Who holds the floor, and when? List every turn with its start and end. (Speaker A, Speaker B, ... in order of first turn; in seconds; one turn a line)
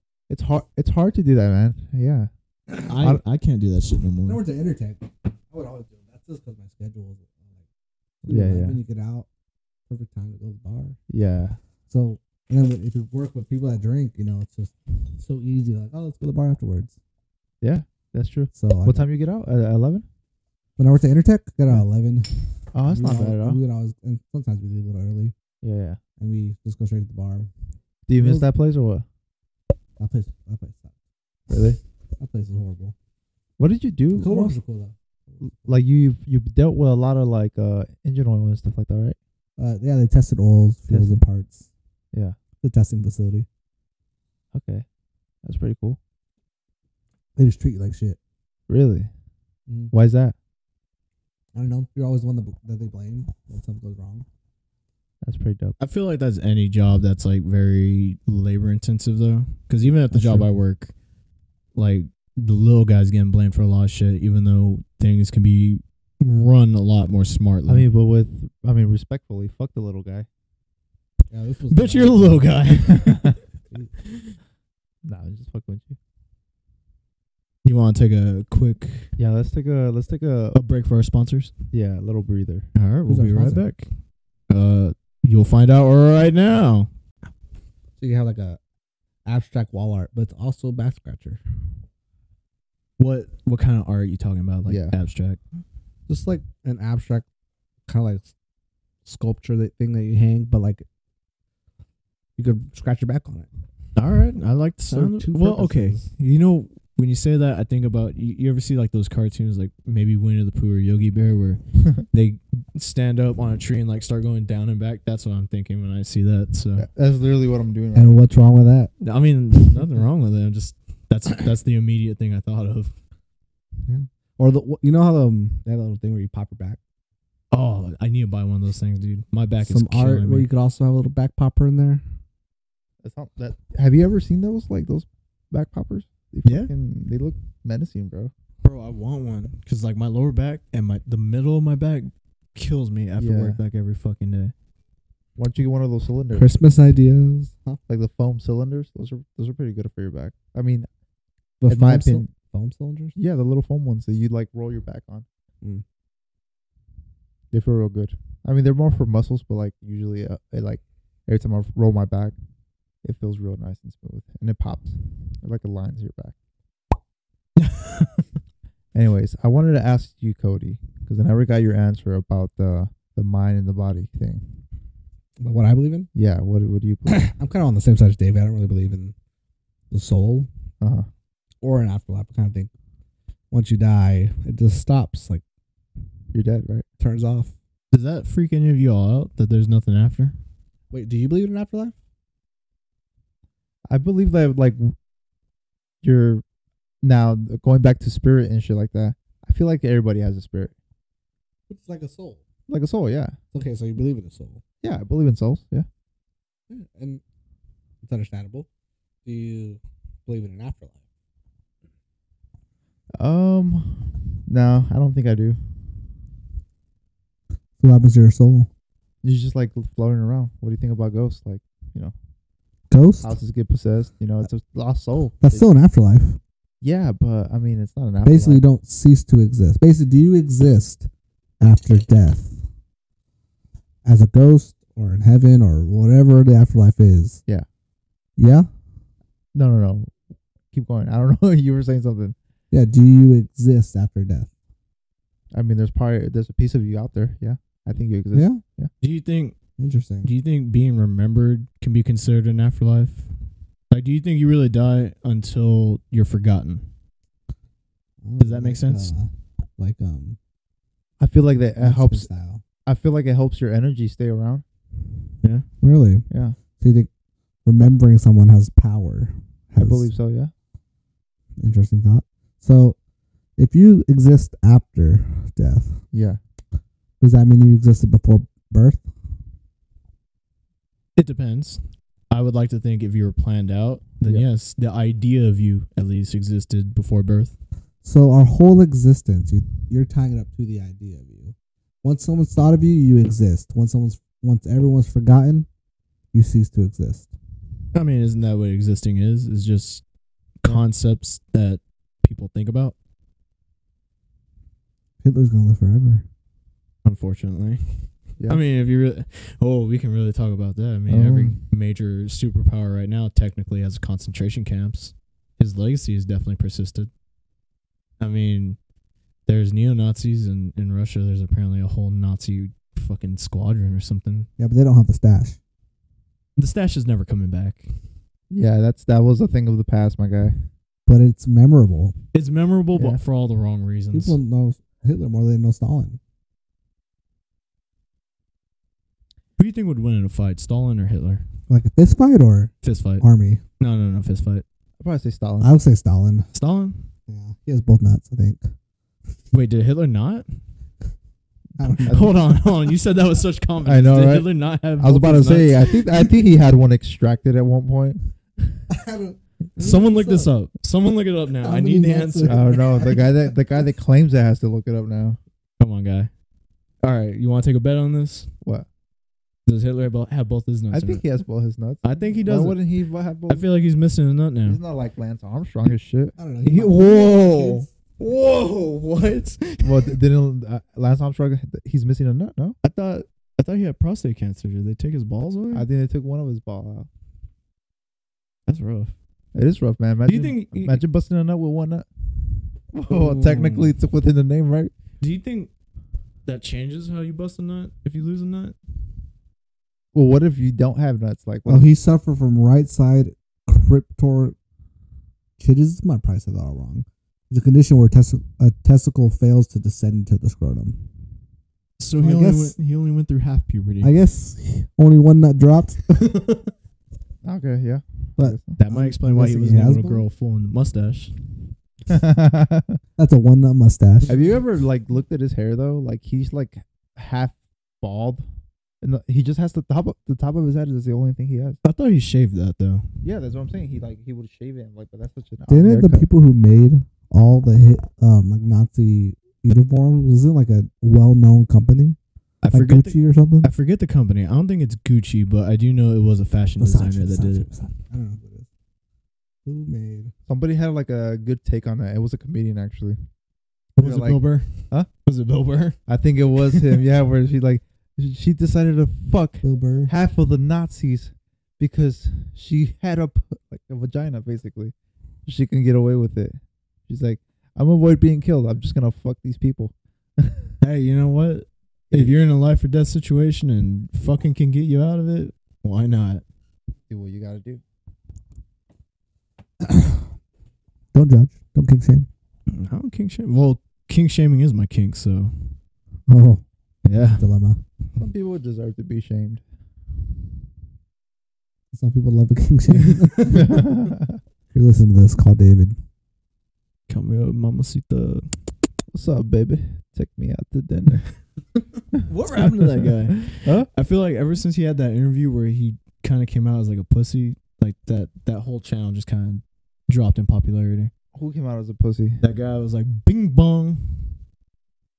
Speaker A: 0.3-2.3
Speaker B: 2.8-4.4
Speaker A: 2.9-3.2
Speaker C: 4.2-7.5
Speaker C: 8.2-9.3
Speaker A: 8.3-8.8
Speaker C: 9.9-11.0
Speaker A: 11.1-11.6
Speaker C: 11.9-16.9
Speaker A: 17.6-20.1
Speaker C: 18.5-19.1
Speaker C: 20.8-25.3
Speaker A: 22.7-23.6
Speaker A: 25.6-26.0
Speaker C: 26.2-27.5
Speaker A: 28.1-29.1
Speaker C: 28.2-28.5
Speaker C: 30.0-30.9
Speaker A: 31.5-31.8
Speaker C: 32.2-33.0
Speaker A: 33.6-34.5
Speaker C: 34.1-34.9
Speaker A: 35.4-39.2
Speaker C: 39.6-41.7
Speaker A: 40.9-41.2
Speaker C: 42.6-43.5
Speaker A: 44.5-44.9
Speaker A: 45.4-46.0
Speaker C: 47.4-48.2
Speaker A: 48.7-49.1
Speaker A: 49.9-50.4
Speaker C: 51.5-54.2
Speaker A: 55.2-55.8
Speaker B: 55.8-60.9
Speaker C: 60.1-60.5
Speaker B: 61.8-67.9
Speaker A: 67.7-70.3
Speaker C: 71.3-72.5
Speaker B: 71.7-73.4
Speaker A: 72.9-73.3
Speaker B: 74.1-74.3
Speaker A: 75.0-76.0
Speaker B: 77.6-79.1
Speaker A: 79.2-80.6
Speaker B: 80.5-81.5
Speaker A: 81.7-82.7
Speaker B: 82.8-83.9
Speaker C: 83.1-83.7
Speaker B: 84.5-86.9
Speaker C: 88.0-88.6
Speaker C: 89.2-91.4
Speaker B: 93.0-95.4
Speaker A: 94.7-94.9
Speaker C: 96.1-97.2
Speaker C: 97.9-98.3
Speaker C: 99.1-100.8
Speaker C: 102.4-103.5
Speaker B: 104.0-116.9
Speaker C: 104.9-106.1
Speaker A: 116.8-118.2
Speaker C: 118.0-118.9
Speaker B: 119.0-122.9
Speaker C: 123.9-126.8
Speaker B: 127.5-130.5
Speaker C: 129.6-132.0
Speaker A: 133.0-138.3
Speaker B: 136.4-136.7
Speaker B: 138.6-144.5
Speaker A: 143.2-143.6
Speaker A: 145.4-146.7
Speaker C: 146.3-147.8
Speaker A: 147.9-150.9
Speaker C: 151.6-153.2
Speaker A: 151.7-152.3
Speaker A: 153.2-155.3
Speaker A: 157.5-162.3
Speaker A: 163.0-166.3
Speaker B: 167.6-168.2
Speaker A: 168.9-174.5
Speaker C: 175.4-176.1
Speaker A: 176.1-177.3
Speaker C: 177.1-179.1
Speaker C: 179.9-180.5
Speaker A: 180.8-181.1
Speaker C: 181.6-182.7
Speaker C: 183.5-185.4
Speaker A: 186.3-186.8
Speaker C: 187.0-187.5
Speaker B: 187.9-190.4
Speaker C: 190.9-191.9
Speaker A: 193.9-194.9
Speaker A: 196.0-196.4
Speaker A: 197.0-200.7
Speaker C: 201.7-202.4
Speaker A: 202.7-203.4
Speaker C: 203.5-204.6
Speaker A: 204.8-205.9
Speaker C: 206.7-207.2
Speaker C: 208.0-208.7
Speaker C: 209.2-211.0
Speaker A: 213.2-215.6
Speaker C: 217.8-218.7
Speaker A: 219.2-222.1
Speaker C: 222.9-223.3
Speaker A: 223.2-225.7
Speaker C: 225.4-226.4
Speaker A: 226.8-228.6
Speaker C: 228.2-231.1
Speaker C: 231.6-232.6
Speaker C: 234.1-237.4
Speaker C: 238.4-238.7
Speaker A: 239.5-240.1
Speaker A: 240.7-242.3
Speaker C: 242.7-244.5
Speaker A: 245.5-248.9
Speaker C: 248.3-248.6
Speaker B: 249.0-249.6
Speaker C: 249.8-250.3
Speaker B: 250.2-253.3
Speaker B: 253.9-256.9
Speaker C: 258.2-260.4
Speaker B: 258.4-259.1
Speaker A: 261.2-262.3
Speaker C: 261.8-262.6
Speaker A: 262.9-264.6
Speaker C: 265.8-266.3
Speaker A: 266.3-266.6
Speaker C: 266.8-267.1
Speaker C: 267.6-270.1
Speaker A: 269.8-270.5
Speaker C: 271.6-273.0
Speaker C: 273.6-276.0
Speaker A: 276.1-276.4
Speaker C: 277.2-279.1
Speaker B: 281.2-287.6
Speaker C: 288.0-295.7
Speaker C: 296.3-297.3
Speaker B: 297.9-300.0
Speaker B: 300.6-303.0
Speaker C: 305.2-306.2
Speaker B: 307.1-317.1
Speaker A: 311.1-311.6
Speaker B: 318.2-318.8
Speaker B: 319.5-324.5
Speaker C: 324.6-325.6
Speaker B: 326.6-327.9
Speaker A: 328.5-330.6
Speaker C: 331.1-332.1
Speaker B: 332.3-334.4
Speaker A: 332.9-333.2
Speaker C: 334.1-336.2
Speaker B: 339.6-341.4
Speaker C: 341.7-343.6
Speaker B: 342.8-343.2
Speaker B: 343.8-344.6
Speaker A: 345.0-345.7
Speaker C: 345.6-346.5
Speaker B: 346.5-347.1
Speaker C: 347.3-348.6
Speaker B: 349.5-350.5
Speaker C: 351.8-352.4
Speaker B: 352.0-356.3
Speaker A: 352.1-352.4
Speaker A: 353.8-358.2
Speaker C: 358.9-360.5
Speaker B: 359.8-362.8
Speaker C: 361.6-363.3
Speaker A: 362.5-365.4
Speaker B: 365.8-366.3
Speaker B: 367.0-368.5
Speaker B: 369.7-371.2
Speaker A: 370.9-373.7
Speaker B: 372.0-372.8
Speaker B: 373.5-374.8
Speaker A: 374.7-376.4
Speaker C: 376.4-377.9
Speaker B: 376.7-380.2
Speaker A: 379.8-382.8
Speaker B: 382.8-385.9
Speaker A: 385.7-387.1
Speaker B: 388.7-389.1
Speaker A: 389.6-392.1
Speaker B: 390.3-391.0
Speaker A: 392.9-394.9
Speaker B: 393.1-393.9
Speaker B: 395.2-395.7
Speaker B: 396.5-398.8
Speaker A: 400.1-401.9
Speaker C: 401.7-404.6
Speaker C: 405.6-411.0
Speaker B: 412.0-414.1
Speaker C: 412.2-412.7
Speaker C: 414.0-416.3
Speaker B: 416.1-416.7
Speaker A: 417.4-418.8
Speaker C: 418.4-420.2
Speaker B: 418.8-421.4
Speaker A: 422.1-423.0
Speaker C: 423.2-424.3
Speaker A: 424.3-428.5
Speaker A: 429.0-431.8
Speaker B: 431.8-433.1
Speaker A: 433.2-436.3
Speaker C: 435.7-442.2
Speaker B: 442.6-447.7
Speaker C: 442.7-443.7
Speaker C: 446.8-448.7
Speaker C: 449.6-450.3
Speaker A: 450.5-453.2
Speaker B: 454.0-456.0
Speaker A: 454.0-455.1
Speaker A: 456.1-464.9
Speaker C: 459.6-460.1
Speaker A: 465.5-470.7
Speaker B: 470.8-476.4
Speaker A: 477.1-477.8
Speaker C: 479.8-480.3
Speaker C: 481.1-482.3
Speaker B: 482.7-485.8
Speaker C: 486.3-486.6
Speaker B: 487.1-487.4
Speaker C: 487.1-487.8
Speaker A: 488.2-489.6
Speaker C: 491.9-493.9
Speaker A: 493.5-494.4
Speaker C: 494.7-496.0
Speaker B: 497.1-498.5
Speaker A: 499.1-501.3
Speaker B: 502.2-511.1
Speaker A: 502.9-503.9
Speaker A: 511.4-512.4
Speaker B: 512.4-514.4